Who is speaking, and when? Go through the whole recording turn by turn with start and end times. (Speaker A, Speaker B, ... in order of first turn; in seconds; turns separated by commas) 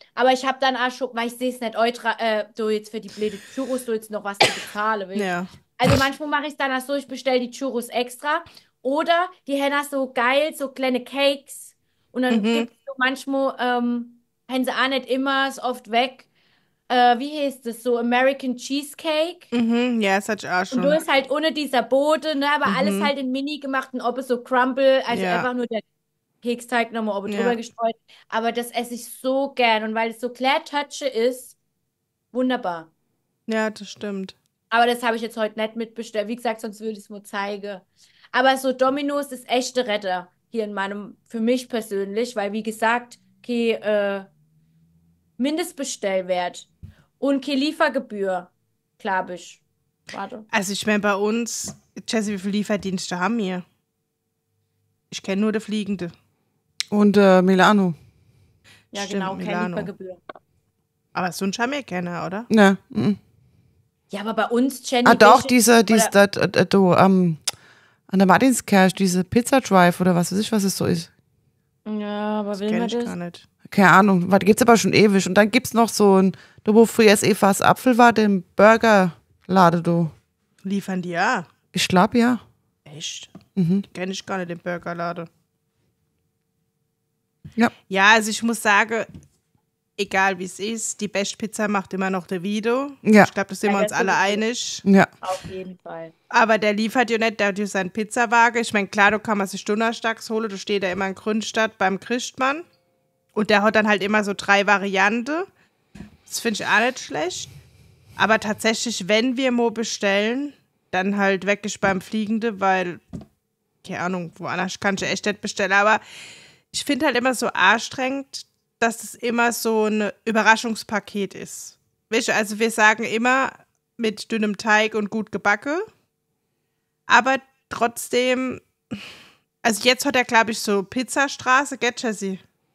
Speaker A: 0.2-16.3, Speaker B: 5.2-5.5, Speaker B: 12.3-12.7, Speaker A: 16.9-19.5, Speaker B: 19.5-21.0, Speaker A: 20.7-25.8, Speaker B: 22.7-23.1, Speaker B: 25.1-25.5, Speaker A: 26.4-31.5, Speaker B: 27.3-27.6, Speaker A: 32.3-32.9, Speaker B: 33.5-34.4, Speaker A: 34.7-44.3, Speaker A: 45.4-46.7, Speaker A: 47.2-50.5, Speaker B: 50.5-53.6, Speaker B: 55.1-56.1, Speaker C: 56.9-58.0, Speaker A: 58.9-60.2, Speaker B: 59.0-59.9, Speaker B: 61.1-62.5, Speaker C: 62.5-63.2, Speaker A: 64.1-66.1, Speaker C: 65.1-67.4, Speaker C: 68.1-71.1, Speaker A: 71.9-73.2, Speaker B: 72.6-73.5, Speaker C: 73.7-80.1, Speaker B: 80.6-81.5, Speaker C: 81.7-82.4, Speaker B: 82.9-83.3, Speaker C: 83.6-83.8, Speaker B: 83.9-85.3, Speaker B: 87.9-89.1, Speaker B: 90.0-94.8, Speaker C: 93.0-93.3, Speaker A: 93.7-94.4, Speaker C: 94.8-95.1, Speaker A: 95.2-96.1, Speaker B: 96.3-102.7, Speaker B: 103.3-105.5, Speaker B: 106.3-107.5, Speaker B: 108.2-113.0, Speaker B: 113.8-116.0, Speaker B: 116.7-125.8, Speaker B: 127.1-129.0, Speaker B: 129.6-132.4